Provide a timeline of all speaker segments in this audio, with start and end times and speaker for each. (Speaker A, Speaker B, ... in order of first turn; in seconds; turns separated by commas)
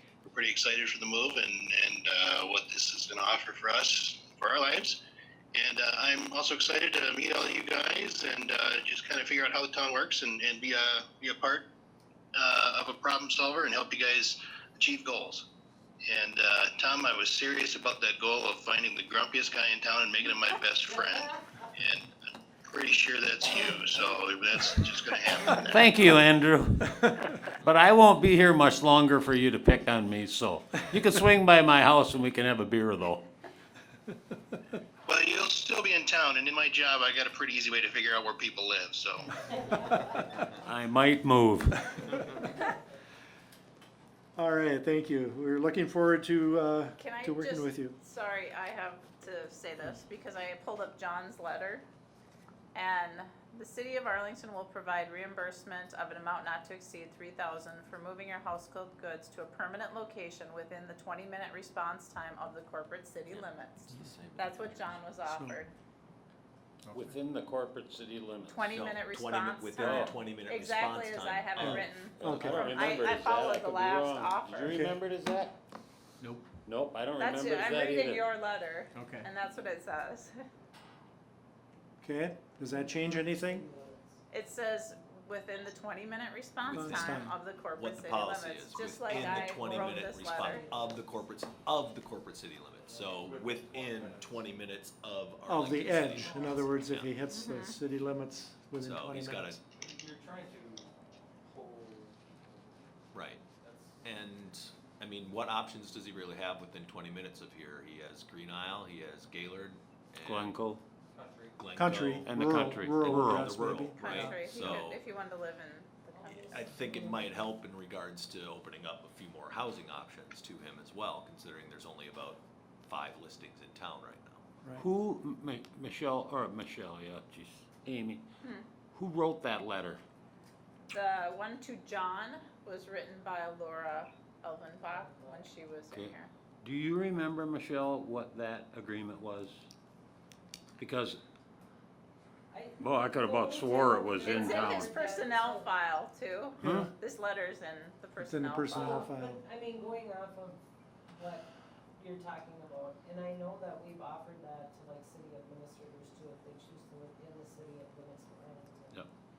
Speaker A: 0.2-5.0, Speaker A: 5.5-11.6, Speaker A: 12.3-15.4, Speaker A: 16.1-22.1, Speaker A: 22.6-25.9, Speaker B: 25.6-33.2, Speaker A: 35.1-39.3, Speaker C: 39.7-40.2, Speaker B: 40.5-41.9, Speaker D: 44.4-48.0, Speaker E: 47.0-51.8, Speaker E: 52.7-65.7, Speaker F: 63.3-65.0, Speaker D: 65.2-65.6, Speaker B: 66.9-68.6, Speaker E: 68.5-74.8, Speaker F: 68.7-72.6, Speaker B: 69.8-70.1, Speaker D: 71.6-72.7, Speaker B: 72.2-75.5, Speaker D: 74.7-75.0, Speaker B: 76.6-78.3, Speaker E: 77.2-80.3, Speaker D: 82.0-83.7, Speaker C: 82.7-84.2, Speaker E: 84.3-90.7, Speaker F: 86.6-97.2, Speaker D: 86.7-87.3, Speaker C: 89.1-91.3, Speaker G: 92.7-94.5, Speaker C: 92.9-93.2, Speaker D: 95.4-99.6, Speaker G: 96.1-97.0, Speaker E: 97.3-97.8, Speaker F: 98.8-99.6, Speaker G: 99.8-100.8, Speaker G: 101.4-102.7, Speaker F: 103.1-103.4, Speaker G: 103.6-104.0, Speaker F: 104.0-110.6, Speaker B: 110.2-110.8, Speaker G: 111.1-111.7, Speaker F: 111.6-112.4, Speaker D: 111.7-114.5, Speaker B: 112.2-113.5, Speaker F: 113.1-115.0, Speaker E: 113.9-116.7, Speaker C: 116.1-117.5, Speaker F: 116.3-124.4, Speaker B: 124.8-128.2, Speaker E: 128.4-128.7, Speaker B: 128.9-130.0, Speaker E: 130.9-136.3, Speaker C: 134.9-135.6, Speaker B: 135.9-139.7, Speaker B: 140.8-141.2, Speaker C: 142.5-145.8, Speaker B: 142.8-144.9, Speaker E: 144.1-149.1, Speaker D: 148.2-149.4, Speaker C: 148.7-159.1